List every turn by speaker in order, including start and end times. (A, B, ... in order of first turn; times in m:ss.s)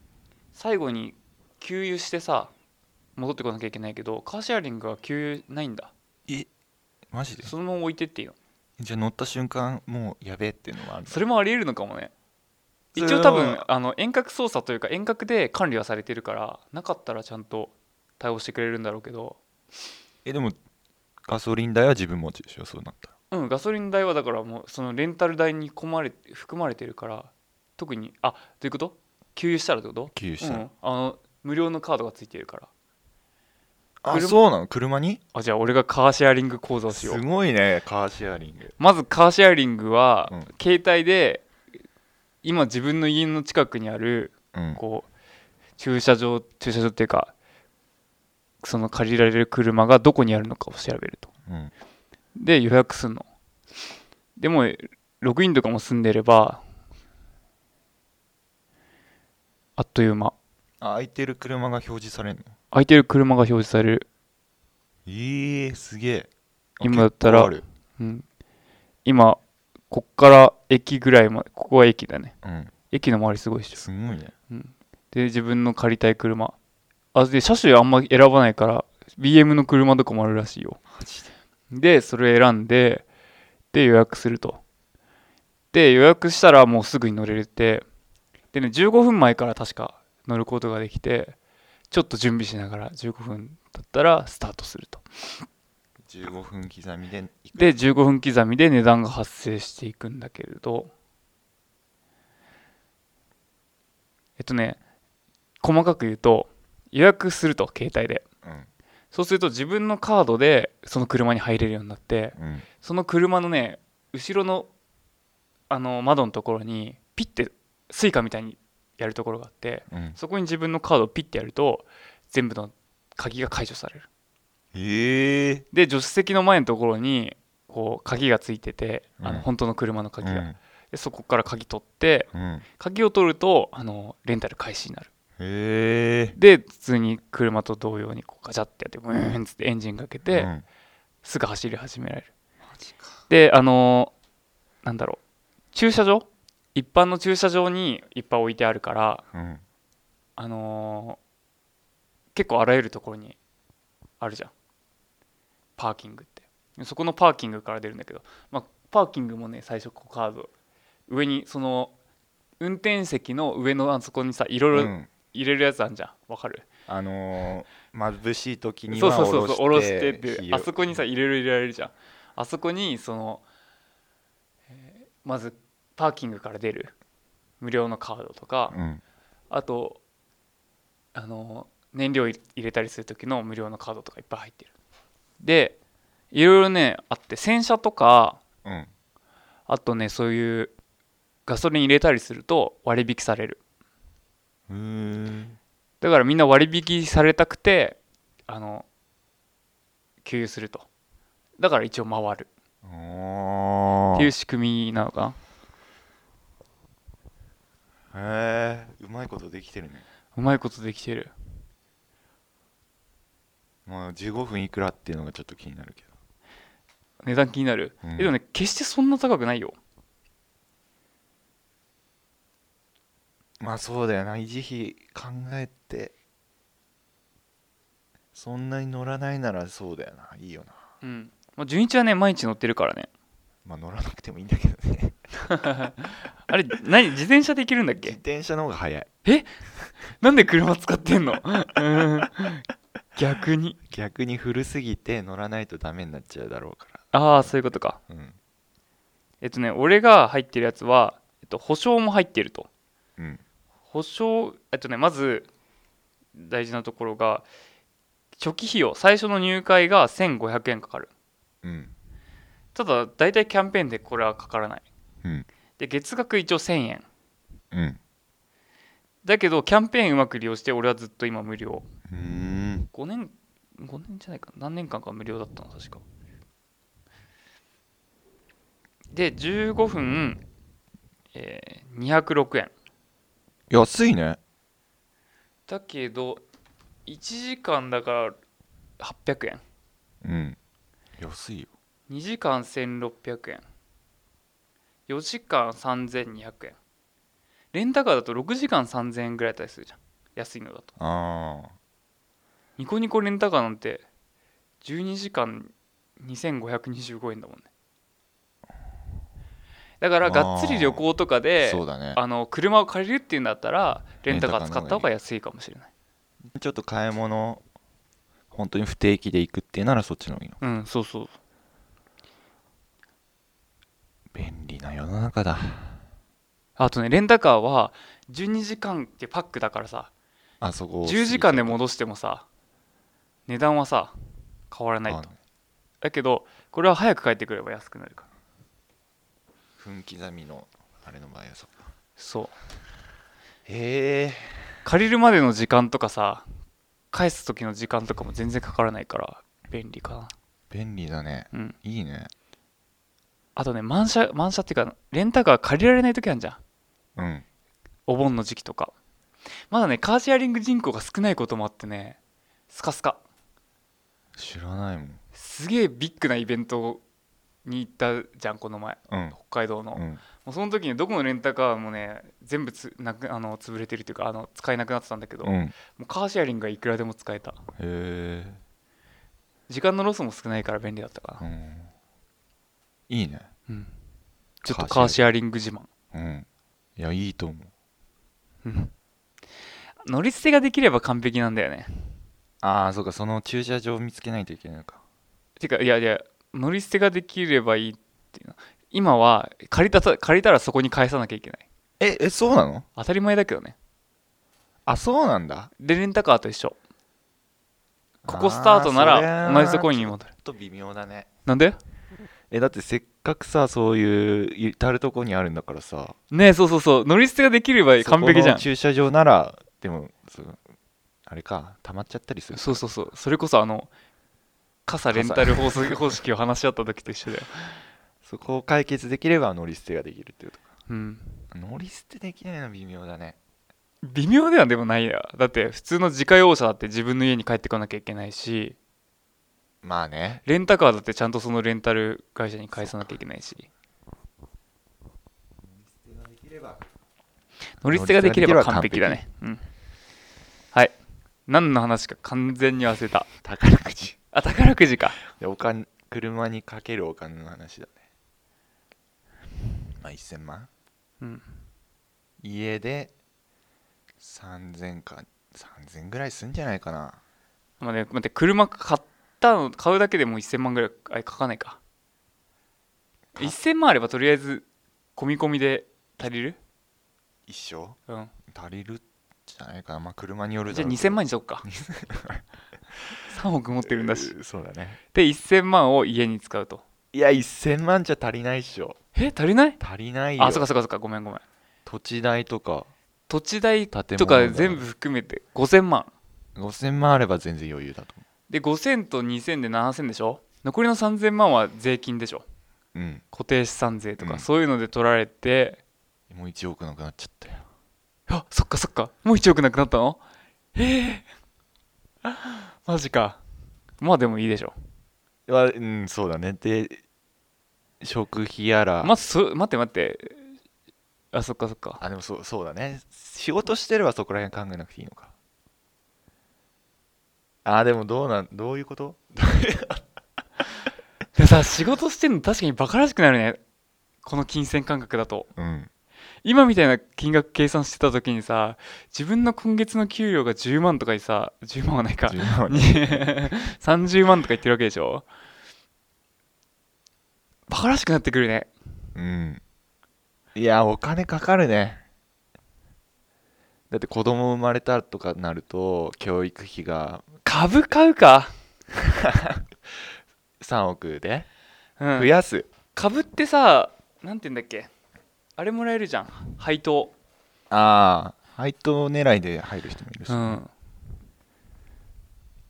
0:00.5-0:02.5 A
0:03.2-0:05.9 A
0:07.1-0:07.5 B
0:07.4-0:08.4 A
0:08.8-0:11.2 B
0:11.0-0:12.1 A
0:12.9-0:13.6 B
0:13.0-0:19.4 A
0:20.2-0:20.6 B
0:21.3-0:23.1 B
0:23.3-0:32.7 A
0:30.1-0:30.7 B
0:34.0-0:35.2 B
0:34.1-0:34.4 A
0:35.3-0:37.2 A
0:36.9-0:38.8 B
0:38.8-0:41.5 A
0:42.4-0:45.1 A
0:44.5-0:44.8 B
0:45.8-0:47.3 A
0:48.6-0:51.3 A
0:51.5-0:51.7 B
0:52.4-0:53.3 A
0:54.4-0:56.6 A
0:59.8-1:00.4 A
1:00.8-1:02.6 B
1:02.7-1:04.1 A
1:05.1-1:07.6 B
1:06.8-1:08.2 A
1:09.0-1:12.3 A
1:12.4-1:12.7 B
1:12.9-1:13.8 A
1:13.8-1:14.3 B
1:14.5-1:16.6 A
1:17.1-1:20.8 A
1:20.9-1:21.3 B
1:21.7-1:23.0 A
1:23.7-1:24.6 A
1:25.7-1:27.8 A
1:28.5-1:31.4 A
1:31.9-1:35.4 A
1:36.1-1:37.9 B
1:37.6-1:40.9 A
1:44.4-1:44.8 A
1:45.6-1:48.2 A
1:48.4-1:48.7 B
1:49.1-1:54.7 A
1:52.4-1:52.7 B
1:55.7-2:04.1 A
1:59.9-2:00.2 B
2:04.7-2:05.6 B
2:05.7-2:15.1 A
2:09.2-2:09.5 B
2:10.2-2:10.6 B
2:12.3-2:12.6 B
2:15.4-2:16.4 B
2:16.4-2:20.5 A
2:20.3-2:20.6 B
2:21.2-2:22.3 A
2:22.7-2:23.2 B
2:23.3-2:24.1 A
2:24.8-2:25.2 A
2:25.7-2:29.2 A
2:29.3-2:29.6 B
2:30.4-2:31.2 A
2:32.3-2:33.4 A
2:34.2-2:34.5 A
2:35.8-2:40.5 A
2:41.1-2:41.9 A
2:42.6-2:46.7 A
2:44.7-2:45.1 B
2:46.9-2:50.7 B
2:48.9-2:53.4 A
2:54.7-2:56.9 A
2:57.6-2:58.8 A
2:58.7-2:59.0 B
2:59.5-3:00.0 A
3:01.1-3:04.7 A
3:05.4-3:05.8 A
3:06.3-3:08.4 A
3:08.6-3:08.9 B
3:09.7-3:10.7 A
3:11.5-3:13.6 A
3:14.7-3:15.6 B
3:16.0-3:18.9 A
3:20.2-3:20.9 A
3:21.6-3:22.5 A
3:22.8-3:24.3 B
3:24.1-3:25.4 A
3:28.1-3:30.0 B
3:30.4-3:31.3 A
3:33.9-3:36.1 B
3:37.2-3:39.8 A
3:38.0-3:38.3 B
3:43.6-3:46.1 B
3:48.3-3:50.8 B
3:51.0-3:53.1 A
3:53.6-3:55.2 B
3:55.5-3:58.2 A
3:58.0-3:59.1 B
3:59.2-4:03.8 A
4:03.9-4:08.4 B
4:07.1-4:08.0 A
4:09.4-4:12.7 A
4:13.9-4:15.5 A
4:16.4-4:17.5 A
4:18.4-4:21.1 A
4:21.6-4:21.9 B
4:22.8-4:24.9 A
4:25.8-4:27.1 A
4:27.7-4:28.0 B
4:29.2-4:31.8 A
4:32.1-4:32.9 B
4:32.9-4:36.0 A
4:39.1-4:40.4 A
4:41.3-4:42.7 A
4:43.7-4:44.4 B
4:45.7-4:46.4 A
4:47.1-4:48.4 A
4:49.0-4:49.6 A
4:50.2-4:50.6 B
4:51.2-4:51.7 B
4:52.1-4:53.6 A
4:55.1-4:56.8 A
4:57.7-5:00.9 A
5:01.0-5:01.7 B
5:02.8-5:04.0 A
5:04.8-5:07.7 A
5:10.0-5:15.9 A
5:10.2-5:11.0 B
5:11.6-5:12.2 B
5:14.3-5:15.1 B
5:16.5-5:17.6 B
5:18.5-5:20.6 B
5:20.6-5:21.4 A
5:24.3-5:26.0 B
5:26.8-5:30.1 A
5:30.6-5:31.8 B
5:31.0-5:32.4 A
5:33.5-5:34.2 A
5:34.7-5:35.3 A
5:35.1-5:35.4 B
5:36.0-5:38.3 A
5:39.8-5:41.9 B
5:42.2-5:42.5 A
5:43.7-5:44.8 B
5:44.8-5:46.5 A
5:47.1-5:50.3 A
5:50.7-5:52.3 B
5:53.6-5:56.6 A
5:57.2-5:57.4 B
5:58.1-5:58.9 A
5:59.7-6:02.2 A
6:02.7-6:03.2 A
6:04.4-6:05.2 B
6:05.3-6:07.0 A
6:07.6-6:17.6 A
6:09.1-6:09.4 B
6:10.0-6:10.2 B
6:15.4-6:15.8 B
6:17.8-6:18.6 B
6:19.7-6:21.4 A
6:21.4-6:21.9 B
6:23.1-6:23.5 B
6:23.7-6:23.9 A
6:24.6-6:25.9 A
6:24.7-6:25.2 B
6:26.1-6:27.7 B
6:28.6-6:28.9 A
6:30.0-6:32.2 A
6:32.6-6:35.0 B
6:35.6-6:41.6 A
6:42.0-6:42.9 B
6:43.0-6:43.8 A
6:44.9-6:45.7 B
6:45.8-6:46.8 A
6:48.3-6:51.3 B
6:48.3-6:50.3 A
6:51.5-6:51.8 A
6:52.5-6:56.2 B
6:56.3-6:58.7 A
6:58.0-7:00.6 B
7:01.3-7:02.9 B
7:02.5-7:03.9 A
7:04.9-7:07.8 A
7:05.1-7:06.2 B
7:08.2-7:10.6 B
7:10.9-7:11.5 A
7:11.5-7:13.4 B
7:14.0-7:18.8 A
7:19.8-7:20.4 B
7:20.4-7:23.7 A
7:22.8-7:23.2 B
7:25.6-7:26.8 B
7:27.8-7:29.6 A
7:27.9-7:29.2 B
7:31.5-7:33.3 A
7:33.4-7:34.2 B
7:34.3-7:35.2 A
7:35.3-7:38.0 B
7:39.9-7:40.7 B
7:41.2-7:41.6 A
7:42.4-7:43.1 B
7:44.2-7:47.2 B
7:47.8-7:51.8 A
7:53.4-7:54.6 A
7:55.2-7:56.6 A
7:57.5-7:58.0 B
7:58.5-8:02.4 B
8:00.7-8:01.6 A
8:03.3-8:04.3 A
8:03.8-8:05.0 B
8:05.1-8:06.8 A
8:07.1-8:09.0 B
8:09.2-8:09.8 A
8:09.8-8:10.7 B
8:10.4-8:11.4 A
8:11.9-8:12.9 B
8:13.3-8:16.1 A
8:13.9-8:14.9 B
8:16.6-8:18.2 B
8:18.5-8:22.4 A
8:22.9-8:23.2 B
8:23.3-8:25.8 A
8:24.2-8:24.5 B
8:26.3-8:27.7 B
8:28.3-8:30.2 A
8:30.8-8:31.3 A
8:32.2-8:33.4 A
8:34.0-8:34.8 A
8:35.5-8:37.0 B
8:38.0-8:39.1 B
8:39.0-8:40.5 A
8:41.3-8:42.0 A
8:42.0-8:45.3 B
8:47.6-8:50.0 B
8:51.4-8:53.6 A
8:54.2-8:55.5 A
8:55.6-8:55.9 B
8:56.4-9:05.3 A
9:02.3-9:03.4 B
9:07.7-9:08.7 A
9:09.2-9:09.6 B
9:10.6-9:12.0 B
9:13.9-9:17.3 B
9:17.4-9:18.5 A
9:18.9-9:19.7 B
9:20.6-9:21.5 B
9:22.0-9:22.3 A
9:22.1-9:22.7 B
9:22.9-9:24.9 A
9:25.6-9:27.1 A
9:27.7-9:30.6 B
9:30.3-9:30.7 A